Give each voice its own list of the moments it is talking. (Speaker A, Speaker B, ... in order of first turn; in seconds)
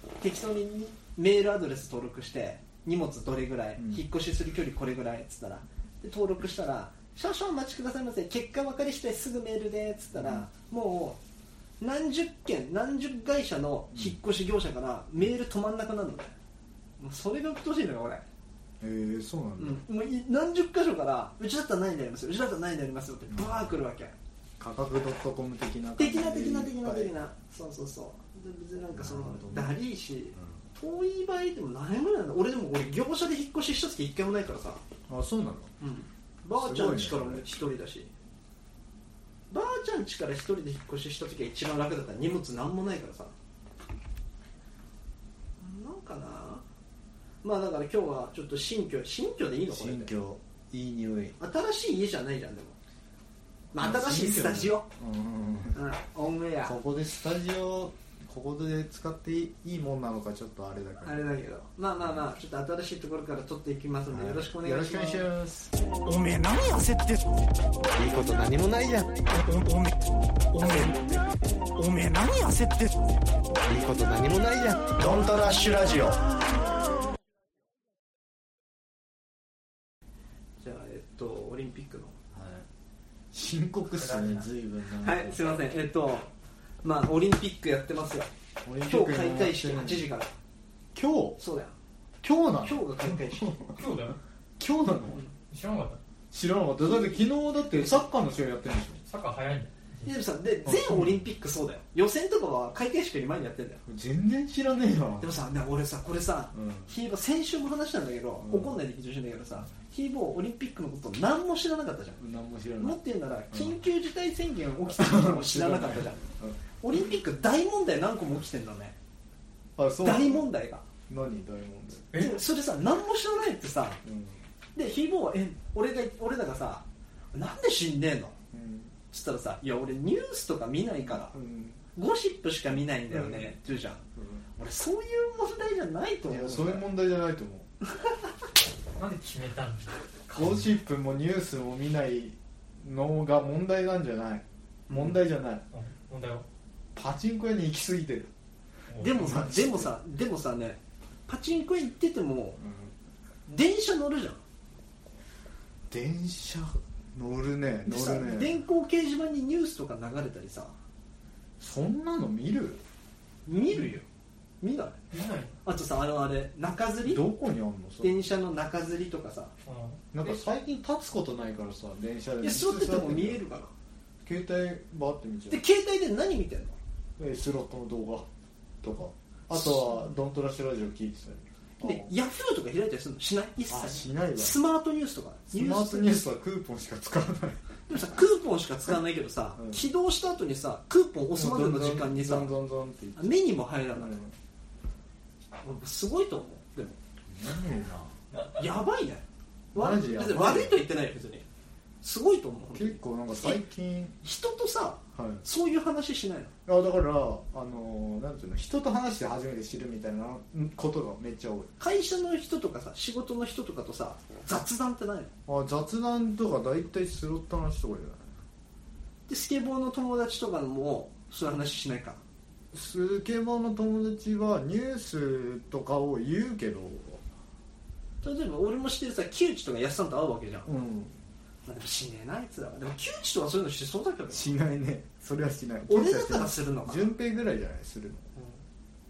Speaker A: 0.2-11.2, 11.8-16.3, 17.0-18.2, 19.6-24.1, 26.0-34.8, 35.8-38.1, 39.5-43.3, 45.6-46.6, 47.4-50.1, 51.4-52.8, 53.7-54.9, 55.7-56.8, 61.0-65.3, 66.0-67.2, 69.3-71.1, 71.7-72.9, 80.6-82.1, 85.0-86.3, 86.8-88.3, 88.8-90.3, 91.4-91.7, 92.6-93.6, 100.0-103.8, 105.2-112.2, 112.8-119.0, 120.0-120.8, 122.1-124.0, 124.7-128.4, 129.1-131.4, 131.9-134.0, 134.6-136.8, 144.9-145.2, 149.0-152.6, 153.5-154.4, 157.8-160.7, 163.4-164.1, 164.6-165.0, 165.6-167.2, 168.0-169.5, 172.4-173.7, 175.5-176.8, 179.5-180.1, 181.8-186.2, 187.9-192.5, 193.2-194.2, 195.6-197.0, 198.5-201.4, 202.0-203.6, 204.2-206.5, 211.8-215.3, 219.3-222.2, 228.2-230.7, 231.6-234.5, 235.9-237.1, 238.3-238.6
Speaker B: 3.8-4.0, 10.1-10.5, 13.9-14.2, 18.8-19.8, 23.3-23.8, 24.6-27.1, 28.9-29.8, 30.3-30.6, 35.1-35.7, 36.5-37.6, 49.7-51.4, 53.7-55.8, 56.6-61.2, 62.0-62.3, 64.1-65.7, 74.9-76.2, 82.3-82.7, 83.3-85.6, 88.6-90.1, 90.9-91.4, 92.2-93.8, 94.6-95.2, 96.3-99.0, 100.6-101.2, 103.9-105.4, 106.5-106.9, 108.4-108.8, 112.2-113.8, 114.8-116.6, 119.8-120.5, 121.1-122.1, 124.0-124.4, 128.5-128.9, 131.0-131.8, 133.1-133.5, 134.2-134.4, 136.2-137.7, 140.3-145.6, 146.9-148.3, 149.1-149.9, 152.6-152.9, 155.9-158.6, 161.6-162.8, 167.0-168.3, 170.1-173.4, 174.2-175.6, 177.2-178.3, 178.8-182.1, 183.7-184.6, 185.5-187.7, 189.6-189.8, 191.3-193.4, 193.9-194.3, 197.3-198.2, 199.7-200.8, 202.7-204.2, 205.1-205.4, 206.7-211.7, 215.5-218.4, 222.7-227.2, 230.6-231.2, 234.3-238.3
Speaker C: 68.0-69.1, 73.7-74.9
Speaker D: 83.9-84.5, 93.7-94.2, 95.5-96.0, 99.1-100.1, 122.1-122.4, 138.9-140.5, 145.7-146.4, 148.9-149.4, 165.1-165.6, 169.6-170.2